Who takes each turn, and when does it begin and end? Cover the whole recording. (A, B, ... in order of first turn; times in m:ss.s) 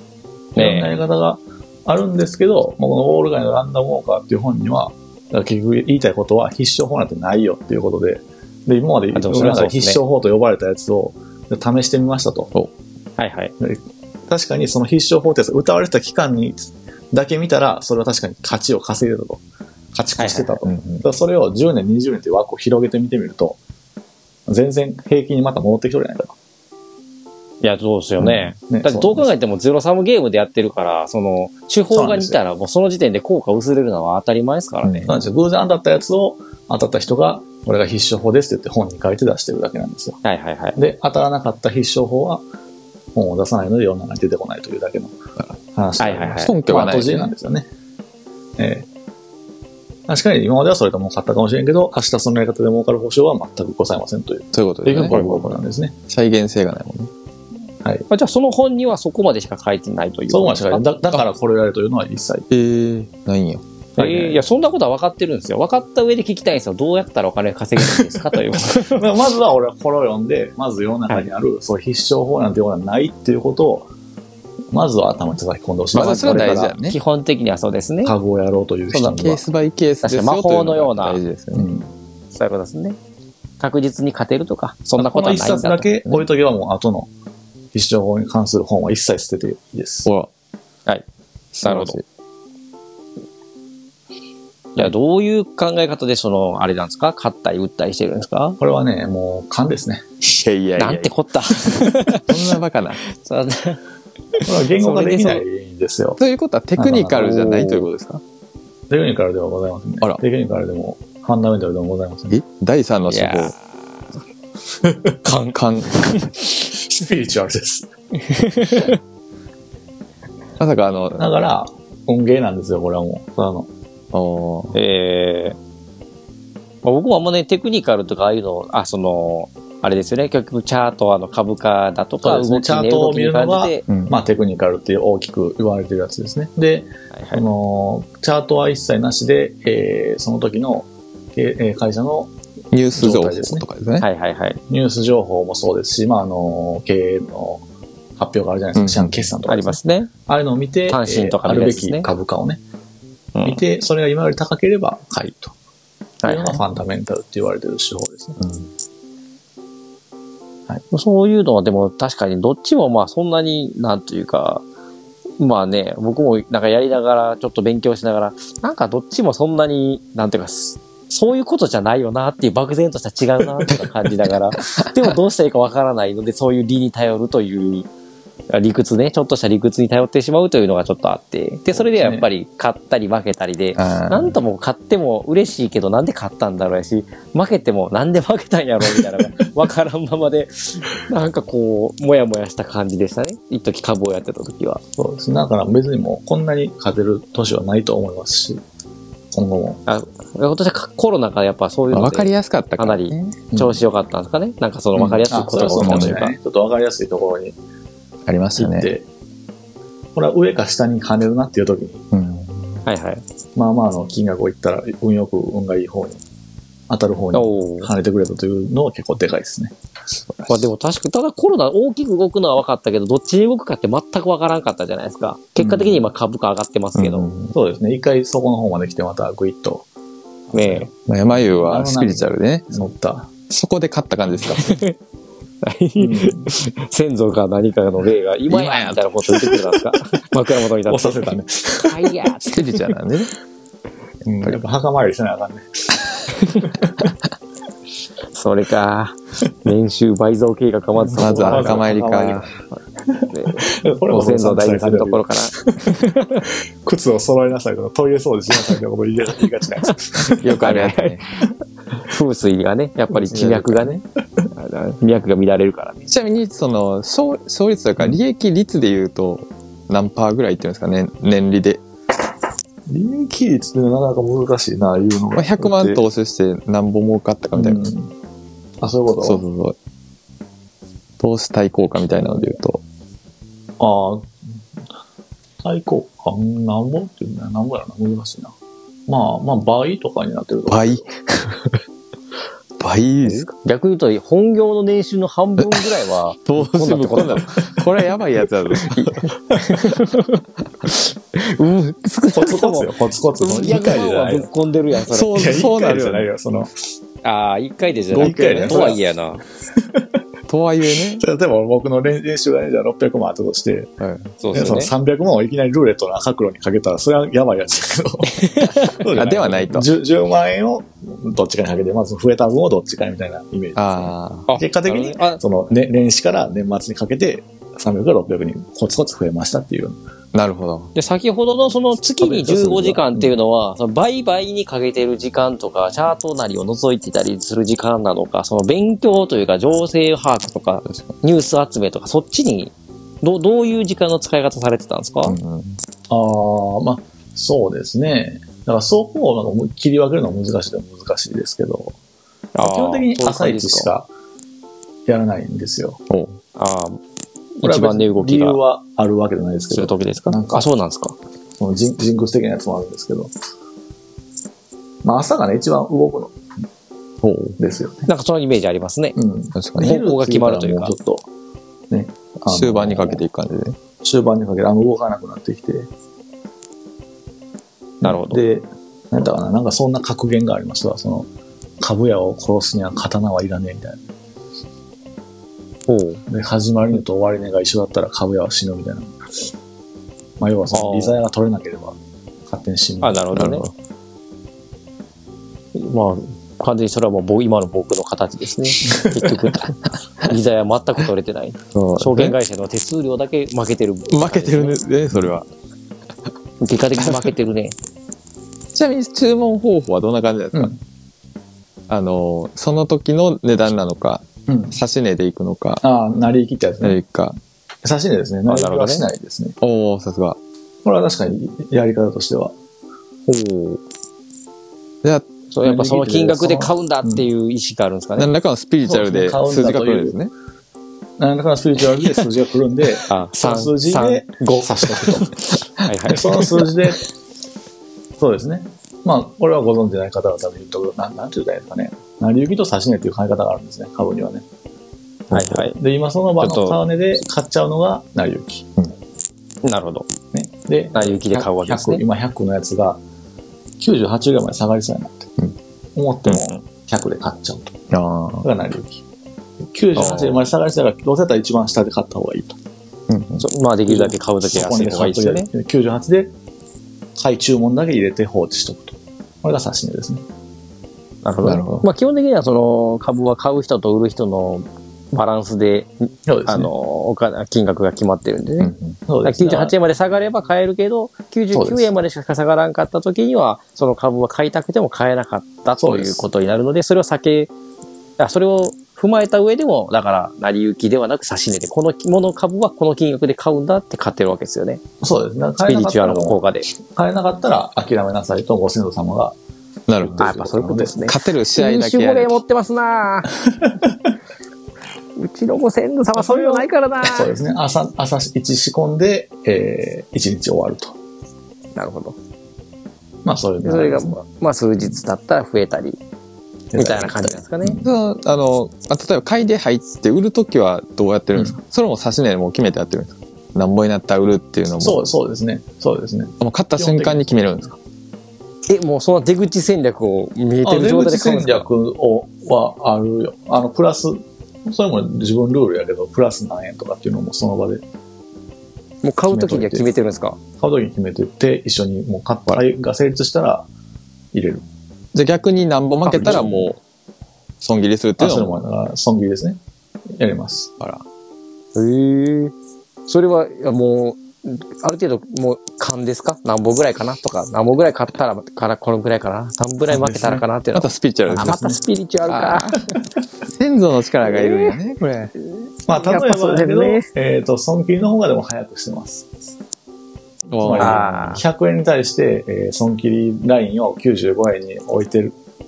0:00.6-0:12.5 A
0:00.6-0:01.0 B
0:09.1-0:10.0 B
0:13.2-0:13.5 B
0:13.6-0:19.4 A
0:19.9-0:23.6 A
0:20.2-0:20.6 B
0:20.6-0:21.0 C
0:24.5-0:26.4 A
0:27.6-0:35.0 B
0:28.2-0:28.5 C
0:28.7-0:29.3 A
0:31.9-0:32.4 A
0:34.8-0:35.2 C
0:35.1-0:40.2 A
0:40.2-0:40.8 B
0:40.8-0:42.4 A
0:43.2-0:45.1 A
0:45.8-0:47.7 A
0:46.0-0:46.6 B
0:46.4-0:47.3 C
0:48.6-0:48.9 A
0:50.1-0:56.0 A
0:54.5-0:57.1 C
0:58.1-1:00.8 B
1:00.3-1:02.5 A
1:02.5-1:03.6 C
1:04.0-1:09.0 B
1:04.0-1:04.3 A
1:08.8-1:13.9 A
1:14.7-1:16.8 A
1:15.9-1:17.0 C
1:16.0-1:18.2 B
1:18.0-1:19.4 A
1:18.9-1:21.7 C
1:20.0-1:21.2 B
1:21.5-1:21.9 A
1:22.3-1:23.0 B
1:23.6-1:26.0 B
1:25.0-1:27.1 A
1:27.7-1:30.1 A
1:31.5-1:32.0 C
1:31.6-1:32.0 B
1:34.8-1:38.6 B
1:38.6-1:40.1 A
1:40.3-1:41.1 C
1:40.8-1:42.5 B
1:41.7-1:43.0 C
1:43.0-1:43.8 B
1:44.4-1:46.2 A
1:44.5-1:45.4 B
1:46.2-1:48.2 C
1:46.8-1:47.5 A
1:47.2-1:47.9 B
1:48.9-1:52.4 A
1:52.3-1:53.5 C
1:53.1-1:53.6 B
1:54.8-1:55.1 A
1:55.2-1:56.5 B
1:55.5-1:56.1 C
1:56.7-1:57.9 A
1:58.2-1:59.0 B
2:00.6-2:01.4 C
2:01.2-2:03.7 A
2:04.1-2:04.8 C
2:04.7-2:05.6 B
2:06.8-2:13.8 B
2:12.2-2:22.3 A
2:13.9-2:14.2 C
2:17.1-2:17.4 B
2:22.7-2:24.1 C
2:22.9-2:23.6 A
2:24.0-2:24.6 B
2:24.7-2:27.6 A
2:28.2-2:32.6 A
2:28.8-2:29.3 C
2:29.5-2:30.1 B
2:30.9-2:32.1 B
2:33.4-2:33.6 B
2:33.4-2:35.5 A
2:36.2-2:36.6 B
2:36.2-2:38.5 A
2:40.9-2:44.6 B
2:45.4-2:57.9 B
2:54.6-2:55.0 C
2:58.5-3:14.8 B
3:01.7-3:02.3 A
3:03.8-3:04.4 C
3:15.0-3:18.6 A
3:19.3-3:19.8 A
3:19.9-3:26.4 B
3:21.9-3:23.4 C
3:23.5-3:23.8 A
3:25.0-3:26.2 C
3:25.3-3:27.6 A
3:28.3-3:28.9 C
3:28.6-3:29.1 A
3:30.2-3:32.0 A
3:32.1-3:32.8 C
3:32.9-3:33.2 B
3:33.6-3:36.2 A
3:36.9-3:39.7 A
3:37.3-3:37.9 B
3:40.3-3:40.7 C
3:40.5-3:47.3 B
3:45.6-3:46.0 A
3:47.0-3:47.5 C
3:47.5-3:49.9 A
3:50.5-3:53.3 A
3:50.5-3:50.9 B
3:51.1-3:52.7 C
3:53.5-3:54.8 C
3:54.4-3:55.0 B
3:55.6-4:02.8 B
3:56.0-3:56.5 A
3:58.5-3:59.5 C
4:00.9-4:02.2 A
4:02.4-4:03.3 C
4:04.2-4:06.9 A
4:06.4-4:06.7 B
4:08.3-4:11.9 B
4:11.0-4:20.6 A
4:11.2-4:12.5 C
4:13.3-4:16.4 B
4:20.4-4:21.2 C
4:20.6-4:21.2 B
4:22.0-4:24.0 B
4:23.3-4:23.9 C
4:24.5-4:26.1 B
4:26.1-4:31.8 C
4:32.9-4:36.0 A
4:35.4-4:37.9 C
4:37.5-4:38.1 A
4:38.8-4:39.4 A
4:39.2-4:39.8 C
4:41.2-4:42.8 C
4:43.8-4:44.4 A
4:45.6-4:48.5 A
4:49.1-4:51.0 A
4:50.7-4:51.8 C
4:52.8-4:53.5 C
4:53.3-4:57.6 B
4:55.6-4:55.9 C
4:56.5-4:59.3 C
4:59.6-5:05.4 B
5:02.3-5:04.5 A
5:05.1-5:06.3 C
5:05.3-5:06.7 A
5:07.2-5:09.4 B
5:08.1-5:09.0 C
5:08.1-5:09.0 A
5:09.8-5:10.1 A
5:10.5-5:11.2 C
5:11.0-5:13.9 A
5:14.0-5:14.3 C
5:14.4-5:14.9 B
5:14.5-5:30.0 A
5:18.2-5:19.0 B
5:19.1-5:19.9 C
5:23.8-5:24.5 C
5:24.5-5:25.4 B
5:30.3-5:30.9 C
5:31.0-5:45.4 B
5:32.1-5:33.3 A
5:45.2-5:45.8 C
5:46.1-5:52.0 A
5:52.6-5:53.9 B
5:52.6-5:54.1 A
5:55.1-5:56.0 A
5:56.1-5:56.4 C
5:56.6-5:57.0 B
5:57.6-5:58.6 B
5:57.6-6:00.7 A
5:59.7-6:01.2 B
6:01.6-6:03.3 A
6:05.0-6:06.4 A
6:07.2-6:07.6 C
6:07.6-6:08.1 A
6:08.1-6:09.2 B
6:09.2-6:11.3 A
6:09.6-6:09.9 C
6:09.8-6:10.9 B
6:11.9-6:13.2 A
6:12.5-6:13.8 C
6:14.0-6:15.9 A
6:18.0-6:21.3 A
6:18.0-6:18.4 B
6:21.8-6:24.1 A
6:25.9-6:26.2 B
6:26.3-6:29.2 A
6:30.4-6:32.0 A
6:30.7-6:31.2 B
6:32.5-6:33.3 A
6:33.0-6:33.6 B
6:33.3-6:33.7 C
6:35.8-6:44.8 B
6:38.9-6:39.3 A
6:41.7-6:42.4 C
6:44.1-6:45.5 C
6:46.6-6:47.8 B
6:47.0-6:47.3 C
6:48.7-6:50.7 C
6:50.5-6:50.8 A
6:51.9-6:55.8 C
6:54.5-6:54.8 A
6:55.8-6:57.0 A
6:56.8-6:57.4 C
6:57.8-6:59.6 A
6:58.5-6:59.0 B
6:59.6-7:00.4 C
7:00.8-7:02.6 A
7:03.3-7:03.8 B
7:05.0-7:05.3 C
7:05.5-7:08.3 B
7:05.6-7:07.3 A
7:08.2-7:10.3 C
7:08.8-7:10.2 A
7:11.2-7:15.3 A
7:13.1-7:16.6 B
7:16.1-7:17.0 A
7:18.2-7:24.4 A
7:25.3-7:25.6 C
7:25.3-7:25.8 B
7:25.4-7:28.7 A
7:26.4-7:26.8 B
7:29.6-7:30.1 B
7:30.3-7:33.0 A
7:31.0-7:32.0 B
7:33.8-7:35.3 A
7:36.0-7:37.8 A
7:37.9-7:38.5 C
7:38.4-7:39.0 A
7:39.6-7:42.6 A
7:40.0-7:40.5 B
7:43.1-7:43.4 C
7:43.4-7:45.5 B
7:43.9-7:46.3 A
7:47.2-7:50.2 A
7:51.2-7:55.9 B
7:51.4-7:51.9 C
7:56.3-7:56.7 A
7:56.5-7:58.7 B
7:58.6-7:59.0 C
7:59.1-7:59.7 A
7:59.2-8:07.5 B
8:01.5-8:01.9 A
8:05.8-8:06.2 A
8:08.2-8:14.8 B
8:15.0-8:19.4 A
8:15.7-8:16.7 B
8:19.9-8:20.3 C
8:20.0-8:21.1 A
8:20.2-8:23.3 B
8:21.0-8:22.4 C
8:25.2-8:27.3 B
8:26.2-8:31.0 A
8:31.8-8:32.2 B
8:33.2-8:34.2 A
8:33.6-8:36.0 B
8:36.7-8:37.9 A
8:36.8-8:37.8 B
8:37.8-8:45.1 C
8:44.8-8:47.5 A
8:46.4-8:47.8 C
8:48.7-8:51.7 B
8:50.6-8:57.8 A
8:59.0-9:00.4 B
8:59.3-8:59.9 A
9:00.6-9:03.7 A
9:04.3-9:04.7 A
9:05.1-9:06.8 C
9:06.0-9:06.5 B
9:06.1-9:06.7 A
9:07.6-9:08.6 C
9:08.2-9:09.6 A
9:10.1-9:10.7 A
9:11.8-9:12.5 B
9:13.1-9:22.9 B
9:19.9-9:20.4 A
9:20.7-9:21.6 C
9:21.3-9:21.8 A
9:22.3-9:22.8 C
9:23.5-9:25.3 C
9:24.3-9:24.8 B
9:25.9-9:29.3 A
9:26.0-9:27.1 B
9:30.5-9:31.4 C
9:30.6-9:35.4 A
9:30.8-9:31.4 B